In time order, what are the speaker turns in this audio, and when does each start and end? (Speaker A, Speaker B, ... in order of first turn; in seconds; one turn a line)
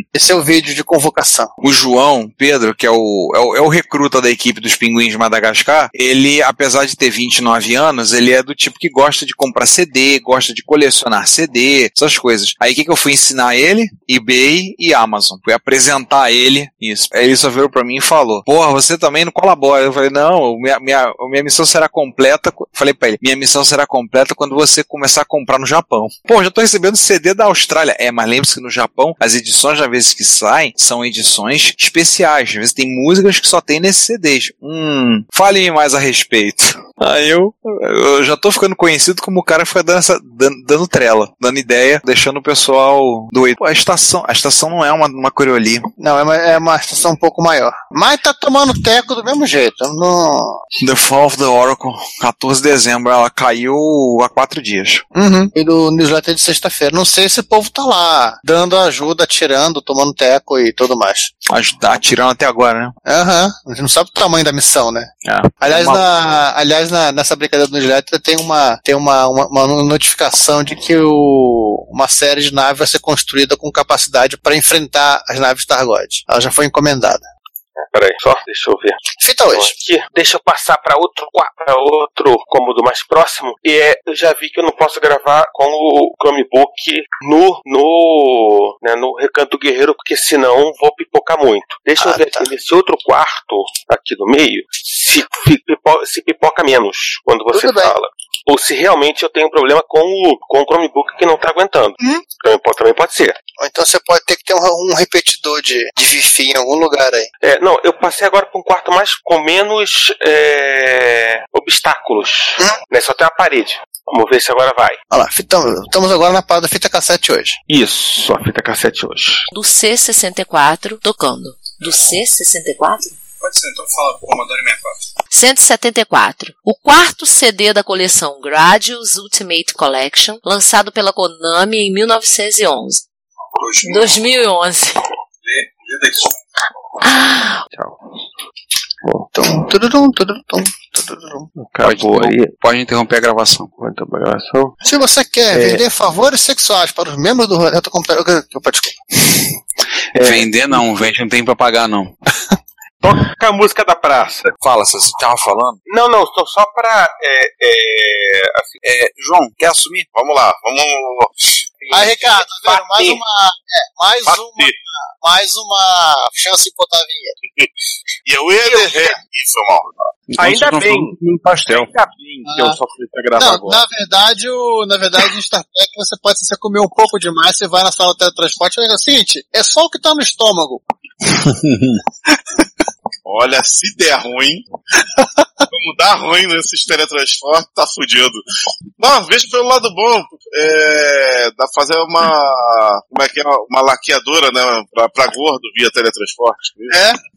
Speaker A: 0.1-1.5
Speaker B: 1.6-45.9
Speaker A: 46.0-50.6
Speaker B: 50.8-55.0
Speaker A: 55.1-61.3
Speaker B: 61.5-63.0
Speaker A: 63.1-65.1
Speaker B: 65.2-66.1
Speaker A: 65.6-77.2
Speaker C: 77.8-79.0
Speaker A: 79.2-79.7
Speaker C: 79.5-103.4
Speaker A: 92.0-92.5
Speaker A: 97.5-97.9
Speaker A: 103.6-107.3
Speaker C: 107.4-115.0
Speaker A: 115.1-117.6
Speaker C: 117.7-119.5
Speaker D: 119.5-123.2
Speaker B: 123.4-125.0
Speaker D: 125.3-133.0
Speaker B: 133.6-134.1
Speaker D: 133.8-135.0
Speaker B: 135.5-136.3
Speaker D: 137.0-137.6
Speaker C: 137.7-138.0
Speaker A: 139.3-141.5
Speaker C: 141.6-142.5
Speaker B: 141.8-143.7
Speaker C: 143.8-144.8
Speaker A: 144.8-148.9
Speaker C: 145.5-145.8
Speaker C: 150.1-150.5
Speaker B: 150.2-152.2
Speaker C: 153.0-154.6
Speaker B: 154.6-155.8
Speaker C: 155.9-158.8
Speaker B: 158.8-160.1
Speaker E: 160.1-161.3
Speaker C: 161.8-163.2
Speaker A: 161.9-167.4
Speaker E: 164.3-164.7
Speaker E: 168.3-169.9
Speaker C: 168.7-169.2
Speaker B: 170.3-171.9
Speaker C: 170.4-173.8
Speaker A: 172.4-172.8
Speaker A: 173.4-180.8
Speaker B: 181.3-182.0
Speaker E: 183.3-184.6
Speaker E: 185.7-188.4
Speaker E: 189.0-197.0
Speaker A: 196.9-197.2